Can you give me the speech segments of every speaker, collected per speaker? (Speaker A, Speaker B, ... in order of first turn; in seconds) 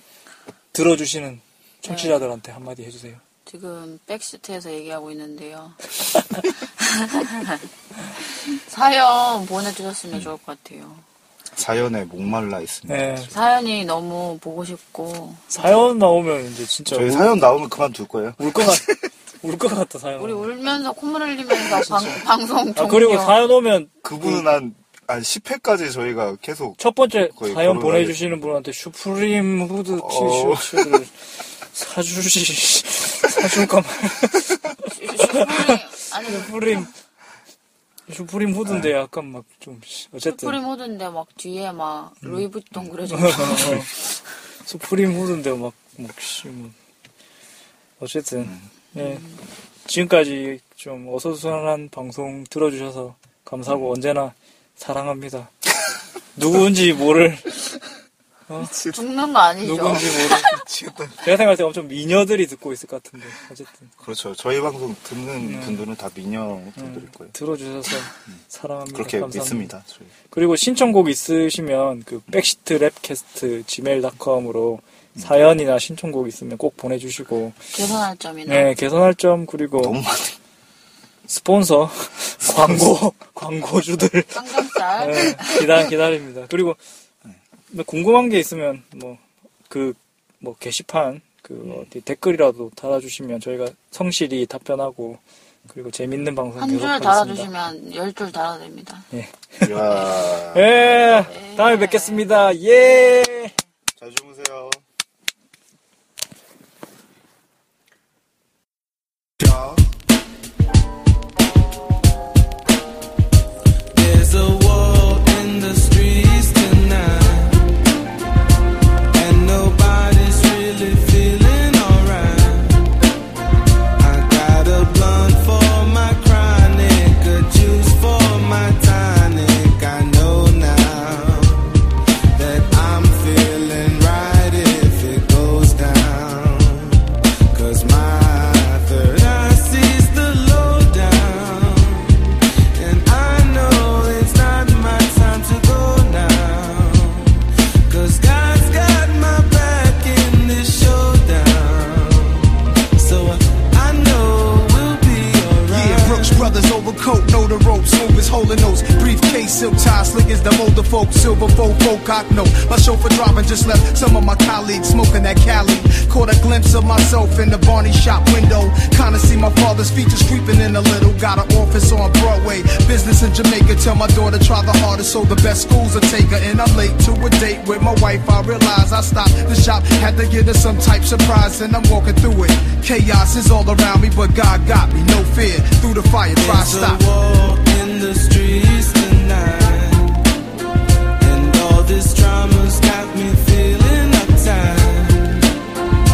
Speaker A: 0.7-3.2, 12.9-13.3, 15.5-17.3, 18.4-20.5, 21.7-22.2, 22.7-24.5, 26.8-31.1, 31.7-36.9, 38.1-40.6, 43.1-44.0, 44.6-46.7, 48.0-49.2, 49.9-55.5, 56.3-57.8, 59.6-60.5, 61.2-63.9, 65.4-65.8, 66.8-69.7, 70.3-77.6, 78.5-80.0, 81.3-86.8, 87.7-97.5, 99.1-103.5
Speaker B: 1.8-2.2, 3.5-5.8, 6.8-7.6, 8.3-11.0, 13.3-15.5, 20.2-23.4, 34.8-36.9, 40.2-43.8, 49.0-49.4, 58.8-60.5, 77.7-78.7, 84.3-85.5, 96.6-99.0, 101.3-102.3
Speaker C: 11.6-13.3, 16.9-18.9, 24.0-28.4, 29.9-31.0, 58.6-59.0, 60.1-61.3, 64.0-67.3, 68.9-70.1, 79.8-80.4, 99.6-101.3, 104.0-104.8
Speaker D: 113.9-117.7, 119.1-122.9, 124.0-131.8, 132.3-156.5, 186.3-190.2, 191.2-195.4
Speaker E: 155.7-187.0